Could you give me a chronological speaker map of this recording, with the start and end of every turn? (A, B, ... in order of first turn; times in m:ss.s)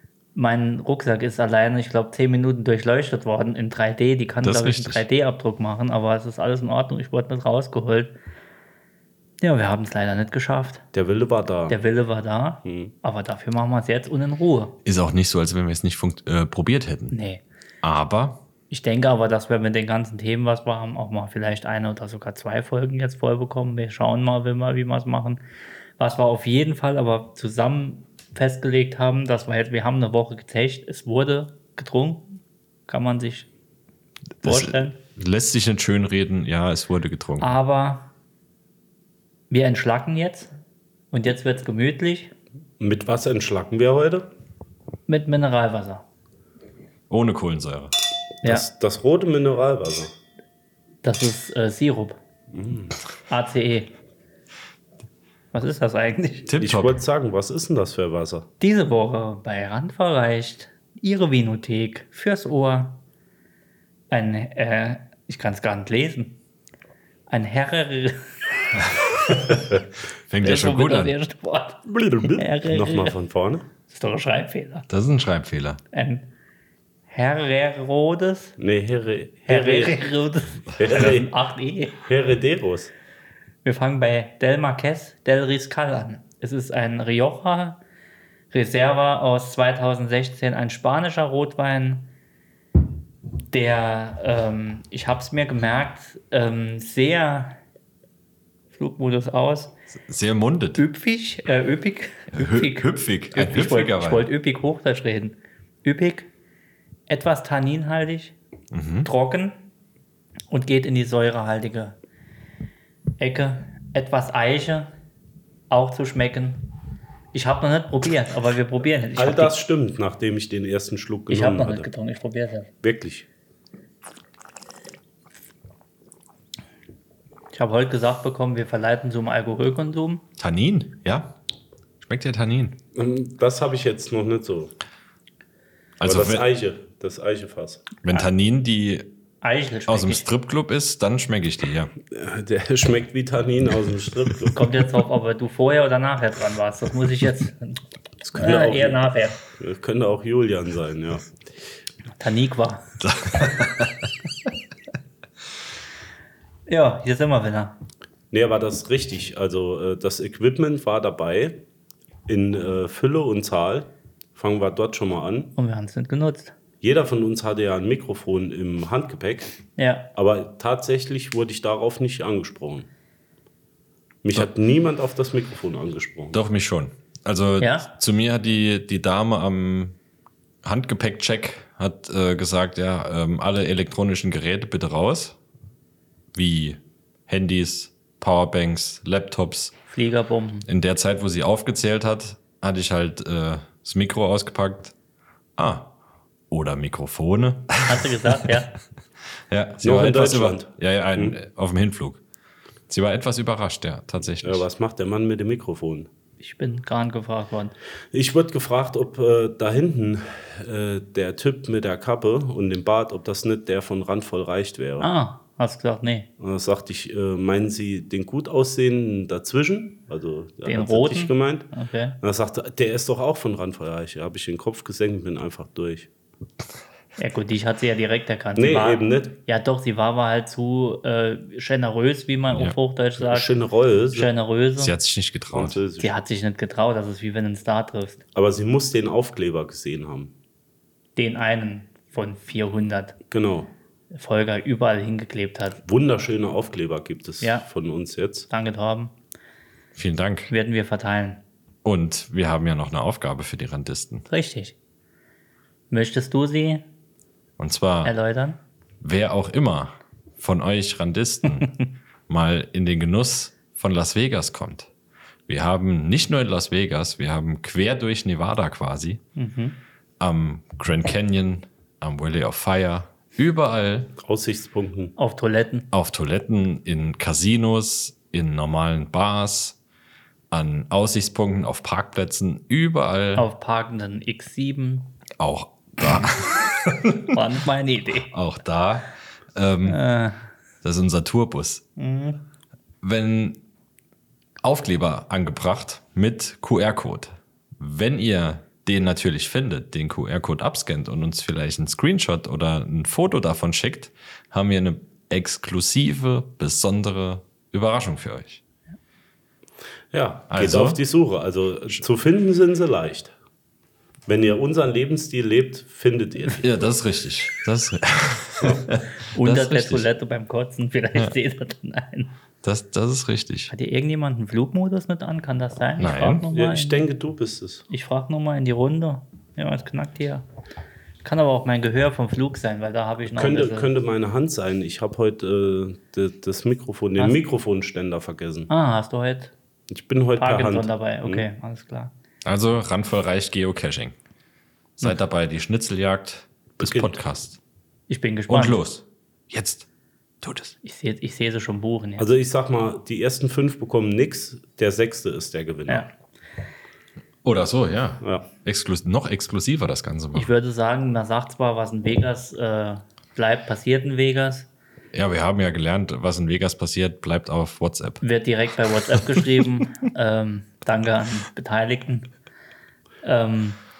0:00.3-0:08.2 A
0:04.4-0:05.0 B
0:09.4-0:10.8 A
0:10.9-0:11.8 C
0:11.7-0:14.8 A
0:12.6-0:12.9 C
0:14.8-0:17.1 B
0:17.1-0:17.4 A
0:17.8-0:18.4 B
0:18.7-0:25.4 A
0:26.0-0:33.5 A
0:34.4-0:35.0 A
0:34.4-0:37.5 B
0:37.4-0:38.1 A
0:39.5-0:40.5 A
0:41.1-0:42.3 A
0:42.8-0:44.3 C
0:45.1-0:46.0 A
0:47.1-0:47.9 B
0:48.4-0:50.1 C
0:51.0-0:52.2 A
0:52.5-0:52.9 C
0:53.3-0:53.9 A
0:55.5-0:56.5 A
0:56.5-0:57.0 B
0:56.6-0:58.5 C
0:58.6-1:03.0 A
1:04.1-1:06.4 A
1:07.3-1:09.5 A
1:09.3-1:09.6 B
1:10.3-1:11.1 B
1:10.4-1:13.1 A
1:11.9-1:13.6 C
1:13.9-1:14.8 A
1:14.9-1:15.8 B
1:15.9-1:16.3 A
1:17.1-1:18.5 A
1:18.6-1:20.1 C
1:19.5-1:22.0 A
1:20.8-1:21.3 C
1:22.0-1:22.9 C
1:23.6-1:27.8 A
1:28.5-1:32.1 A
1:33.5-1:37.6 A
1:38.7-1:39.7 A
1:40.0-1:40.8 B
1:40.7-1:46.3 A
1:42.3-1:44.3 B
1:47.1-1:48.3 A
1:48.7-1:49.1 B
1:49.0-1:49.6 A
1:50.5-1:52.0 A
1:53.2-1:54.9 A
1:55.7-1:56.6 A
1:57.3-1:59.5 A
1:59.2-2:01.9 C
2:01.3-2:02.7 A
2:02.8-2:03.3 C
2:07.5-2:10.2 A
2:10.4-2:11.4 B
2:12.0-2:12.8 B
2:12.9-2:14.7 C
2:16.0-2:16.4 B
2:16.0-2:17.9 C
2:18.0-2:19.1 B
2:19.4-2:20.2 A
2:19.9-2:21.9 B
2:22.1-2:24.6 C
2:24.5-2:27.8 A
2:28.2-2:31.3 C
2:28.3-2:29.4 A
2:32.2-2:32.8 A
2:33.0-2:34.1 B
2:36.7-2:37.8 A
2:38.3-2:41.6 C
2:42.3-2:45.5 C
2:45.6-2:46.5 A
2:46.8-2:49.5 C
2:49.8-2:50.1 A
2:50.1-2:52.9 C
2:54.2-2:56.4 C
2:56.3-3:00.0 B
2:57.6-2:57.9 A
3:00.6-3:05.4 B
3:06.3-3:09.7 B
3:09.9-3:10.6 A
3:10.7-3:14.9 B
3:15.6-3:15.9 B
3:16.5-3:18.4 B
3:17.8-3:18.7 A
3:19.5-3:22.2 B
3:19.8-3:21.4 C
3:22.9-3:24.6 B
3:24.4-3:26.1 C
3:26.4-3:27.7 A
3:28.1-3:35.1 C
3:35.0-3:36.3 A
3:36.4-3:46.1 C
3:40.6-3:42.2 A
3:47.2-3:53.5 A
3:48.6-3:49.4 C
3:53.2-3:54.3 C
3:54.1-3:54.9 A
3:54.8-3:55.8 B
3:55.5-3:56.1 C
3:56.0-3:58.2 A
3:58.3-4:00.3 C
4:01.2-4:03.2 A
4:03.3-4:03.7 C
4:04.1-4:05.8 A
4:05.8-4:08.5 C
4:08.5-4:09.1 A
4:10.0-4:10.5 B
4:10.5-4:11.4 A
4:11.8-4:14.2 B
4:14.3-4:14.7 A
4:15.9-4:16.8 A
4:17.6-4:18.1 B
4:18.0-4:18.6 A
4:19.0-4:21.7 B
4:22.3-4:24.9 B
4:25.5-4:29.2 B
4:29.4-4:29.8 A
4:30.2-4:34.1 B
4:34.2-4:35.2 C
4:35.2-4:35.9 A
4:35.9-4:39.8 B
4:40.5-4:43.4 B
4:43.3-4:45.1 A
4:45.4-4:47.4 B
4:47.3-4:48.3 A
4:48.2-4:50.0 B
4:49.8-4:50.5 A
4:50.8-4:51.8 B
4:52.0-4:52.4 A
4:53.0-4:53.6 B
4:54.6-5:08.6 B
5:10.1-5:13.3 C
5:10.5-5:11.0 B
5:14.3-5:16.6 C
5:16.6-5:20.0 B
5:19.3-5:22.3 A
5:22.6-5:23.7 B
5:23.7-5:27.1 A
5:26.0-5:26.4 B
5:26.5-5:27.8 C
5:27.9-5:30.4 A
5:31.2-5:33.9 A
5:33.3-5:38.7 C
5:38.7-5:39.5 A
5:39.9-5:41.5 C
5:40.4-5:42.1 A
5:42.4-5:44.2 B
5:45.0-5:47.6 B
5:46.8-5:47.2 C
5:48.1-5:48.8 A
5:48.5-5:49.8 B
5:50.4-5:50.8 B
5:50.8-5:52.3 A
5:52.2-5:56.1 C
5:57.4-6:00.5 B
6:00.3-6:04.7 A
6:05.1-6:08.2 B
6:08.2-6:12.3 A
6:13.2-6:13.8 A